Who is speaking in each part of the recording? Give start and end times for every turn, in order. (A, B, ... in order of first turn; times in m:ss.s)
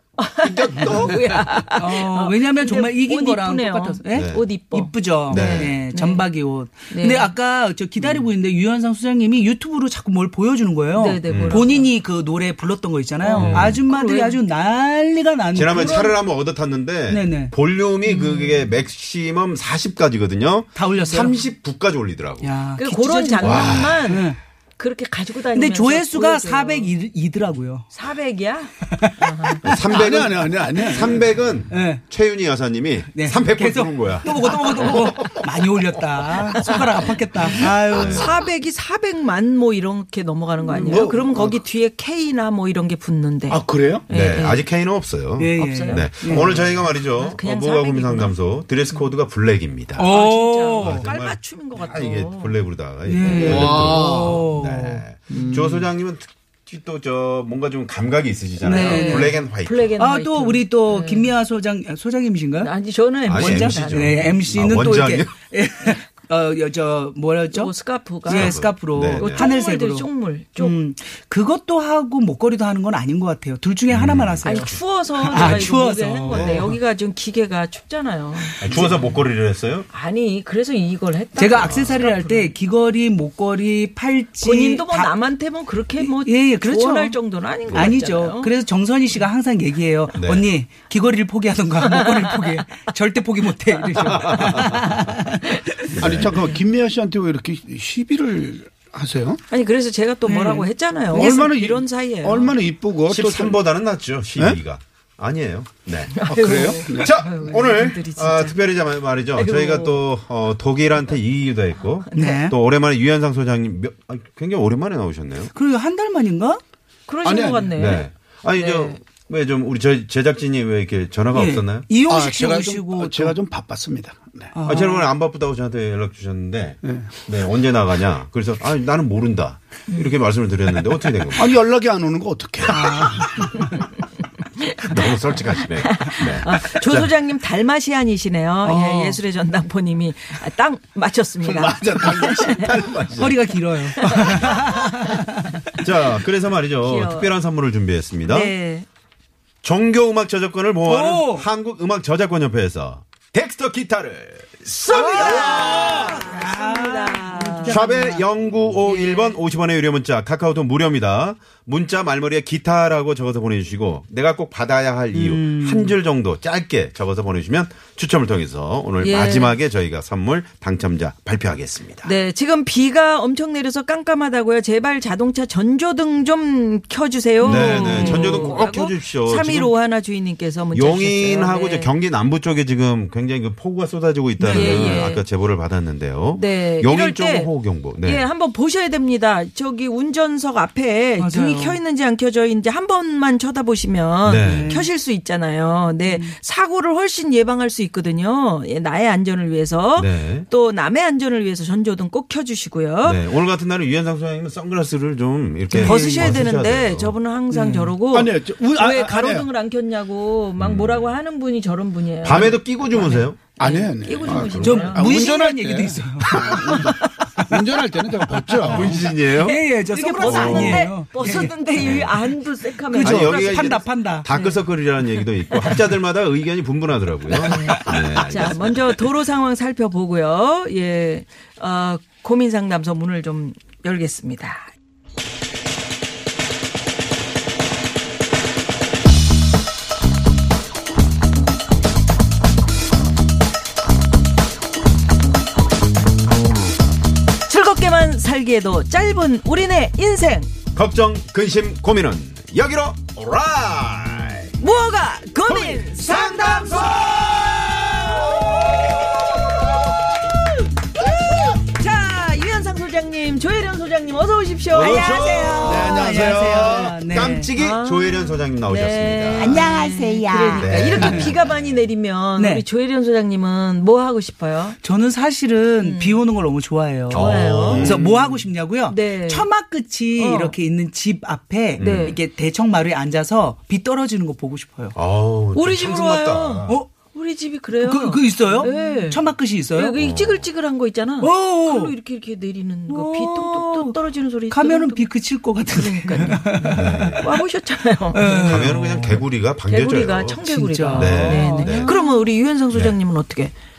0:00.2-0:06.3 A
0:00.4-0:01.5 B
0:01.8-0:16.1 C
0:04.1-0:04.4 B
0:05.3-0:05.7 B
0:06.9-0:07.3 A
0:11.0-0:11.9 A
0:11.3-0:11.6 B
0:13.2-0:14.4 A
0:13.4-0:13.8 B
0:15.5-0:22.5 B
0:15.8-0:16.2 A
0:17.1-0:17.5 C
0:18.1-0:18.6 A
0:20.8-0:21.4 C
0:22.4-0:24.4 C
0:22.8-0:26.9 A
0:23.4-0:24.2 B
0:25.5-0:27.9 C
0:27.9-0:29.6 A
0:28.9-0:30.3 C
0:29.6-0:36.5 B
0:29.9-0:31.4 D
0:31.7-0:32.0 C
0:33.1-0:38.4 C
0:37.6-0:38.4 B
0:37.9-0:44.6 A
0:40.7-0:41.6 D
0:43.5-0:44.0 D
0:44.1-0:50.1 B
0:45.4-0:46.6 C
0:45.6-0:48.4 A
0:50.0-0:51.1 C
0:50.0-0:52.6 A
0:50.8-1:00.0 B
0:53.0-0:55.0 C
0:53.2-0:53.7 A
0:53.4-0:54.4 D
0:55.3-0:55.8 D
0:58.6-0:59.4 C
0:58.7-1:01.3 A
1:00.0-1:02.7 C
1:02.6-1:04.3 A
1:03.3-1:05.3 B
1:03.3-1:16.8 C
1:07.5-1:10.8 A
1:08.3-1:09.5 B
1:13.9-1:15.7 B
1:14.4-1:19.1 A
1:16.3-1:16.7 B
1:18.6-1:19.9 B
1:19.9-1:22.5 A
1:21.4-1:25.2 C
1:21.6-1:22.1 B
1:24.4-1:28.5 A
1:26.0-1:35.9 C
1:27.7-1:28.0 B
1:30.2-1:30.5 B
1:31.9-1:32.3 A
1:34.0-1:34.9 B
1:36.0-1:36.4 B
1:36.0-1:39.4 D
1:39.5-1:42.6 A
1:40.3-1:40.7 C
1:41.1-1:43.6 D
1:43.1-1:55.5 B
1:46.1-1:48.7 A
1:46.3-1:47.1 D
1:49.3-1:50.0 A
1:52.0-1:52.4 A
1:52.1-1:52.6 C
1:55.5-1:56.6 C
1:57.1-1:59.0 A
1:57.2-1:57.8 D
1:57.8-2:01.9 B
2:01.3-2:03.4 C
2:02.1-2:04.5 D
2:04.5-2:05.1 C
2:04.6-2:11.6 B
2:06.8-2:07.1 D
2:09.9-2:10.2 A
2:11.3-2:13.4 D
2:12.7-2:13.5 C
2:14.6-2:15.1 A
2:14.8-2:17.1 B
2:15.7-2:22.7 A
2:18.6-2:19.2 C
2:21.4-2:22.9 D
2:22.1-2:24.8 B
2:23.2-2:25.6 C
2:24.0-2:24.8 A
2:25.8-2:28.5 B
2:26.8-2:27.3 A
2:28.3-2:28.9 A
2:29.6-2:36.2 B
2:30.9-2:31.5 C
2:34.9-2:38.3 C
2:34.9-2:37.8 A
2:34.9-2:36.2 D
2:37.7-2:52.1 B
2:38.8-2:39.4 A
2:45.1-2:46.0 C
2:49.0-2:49.6 A
2:52.0-3:01.9 A
2:57.4-2:58.6 C
2:57.4-2:59.8 B
3:00.7-3:08.3 B
3:04.4-3:05.1 C
3:04.5-3:05.2 A
3:06.3-3:23.2 A
3:11.2-3:11.8 C
3:14.2-3:14.7 B
3:14.4-3:14.9 C
3:16.1-3:16.4 C
3:20.0-3:20.5 B
3:23.0-3:27.2 B
3:25.7-3:26.5 C
3:25.8-3:35.1 A
3:27.5-3:28.0 C
3:28.1-3:29.5 D
3:30.6-3:31.1 B
3:32.2-3:33.4 B
3:33.6-3:39.1 D
3:34.3-3:35.0 B
3:34.6-3:44.3 C
3:36.3-3:37.1 A
3:38.7-3:39.6 B
3:39.9-3:43.8 A
3:40.2-3:40.9 B
3:41.8-3:42.2 B
3:43.0-3:49.0 B
3:44.3-3:45.8 A
3:47.4-3:54.7 A
4:07.5-4:10.5 A
4:10.8-4:14.6 B
4:14.6-4:19.8 A
4:15.5-4:19.8 B
4:20.9-4:26.5 A
4:24.7-4:29.6 B
4:24.8-4:27.5 C
4:25.6-4:27.0 D
4:27.5-4:34.8 A
4:29.3-4:31.4 C
4:30.6-4:31.9 B
4:32.4-4:32.6 C
4:34.8-4:45.0 C
4:35.8-4:36.2 A
4:37.1-4:38.2 B
4:37.1-4:38.0 A
4:38.9-4:39.5 A
4:40.2-4:40.5 A
4:41.8-4:42.2 B
4:41.8-4:42.2 A
4:44.9-4:46.8 B
4:45.5-4:55.1 A
4:47.8-4:50.0 C
4:50.0-4:50.5 B
4:51.2-4:52.0 C
4:52.9-4:54.0 C
4:54.5-4:57.3 C
4:55.7-4:58.7 A
4:56.8-4:57.3 B
4:58.1-4:59.2 C
4:58.4-5:01.9 B
4:59.6-5:03.5 A
5:00.4-5:02.2 C
5:02.7-5:03.0 B